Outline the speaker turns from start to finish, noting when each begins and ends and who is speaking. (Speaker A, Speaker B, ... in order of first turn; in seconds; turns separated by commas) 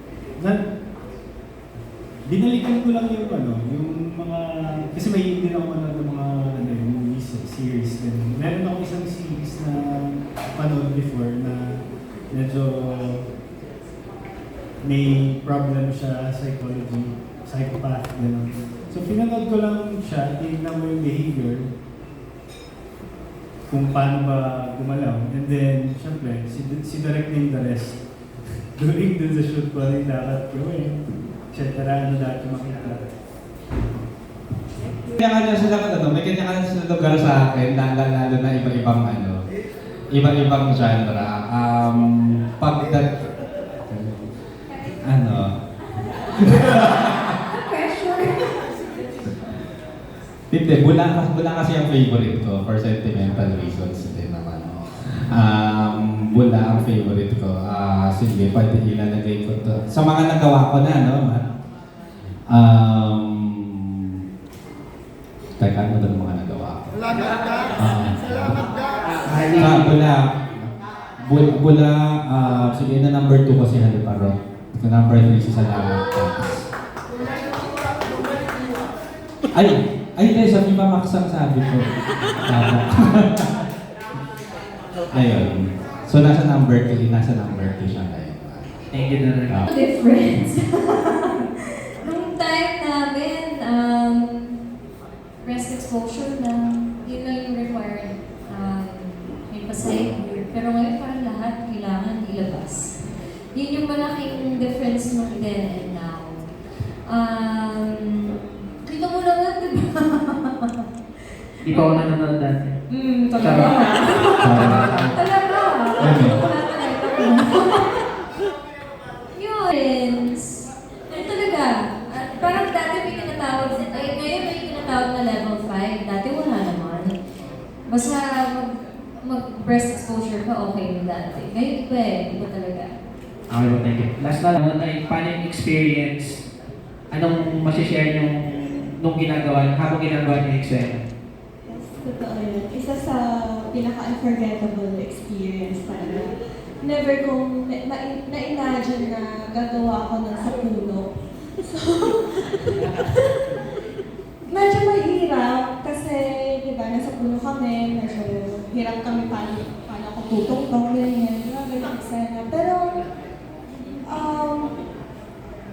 Speaker A: 0.4-0.7, Speaker A: 2.3-11.8, Speaker A: 12.3-13.3, Speaker A: 14.8-21.7, Speaker A: 23.7-28.0, Speaker A: 28.7-33.0, Speaker B: 35.2-39.4, Speaker B: 40.1-43.1, Speaker B: 43.9-44.2, Speaker B: 45.0-45.5, Speaker B: 46.4-47.3, Speaker C: 47.5-48.6, Speaker B: 50.5-61.4, Speaker B: 62.5-64.1, Speaker B: 65.6-67.0, Speaker B: 67.8-68.7, Speaker B: 69.4-70.7, Speaker B: 71.2-76.6, Speaker B: 79.5-81.9, Speaker B: 82.5-83.5, Speaker B: 85.1-88.6, Speaker D: 88.9-89.5, Speaker C: 89.7-91.5, Speaker C: 92.0-94.6, Speaker C: 95.4-103.0, Speaker C: 103.5-106.4, Speaker C: 107.1-110.8, Speaker D: 111.6-112.8, Speaker C: 111.7-112.0, Speaker C: 112.9-117.9, Speaker D: 113.4-115.1, Speaker B: 114.4-115.2, Speaker B: 116.0-116.4, Speaker C: 119.3-127.2, Speaker C: 127.9-132.9, Speaker D: 133.5-136.4, Speaker D: 137.1-141.0, Speaker E: 141.7-146.3, Speaker E: 146.8-153.6, Speaker E: 154.5-163.0, Speaker E: 164.1-164.7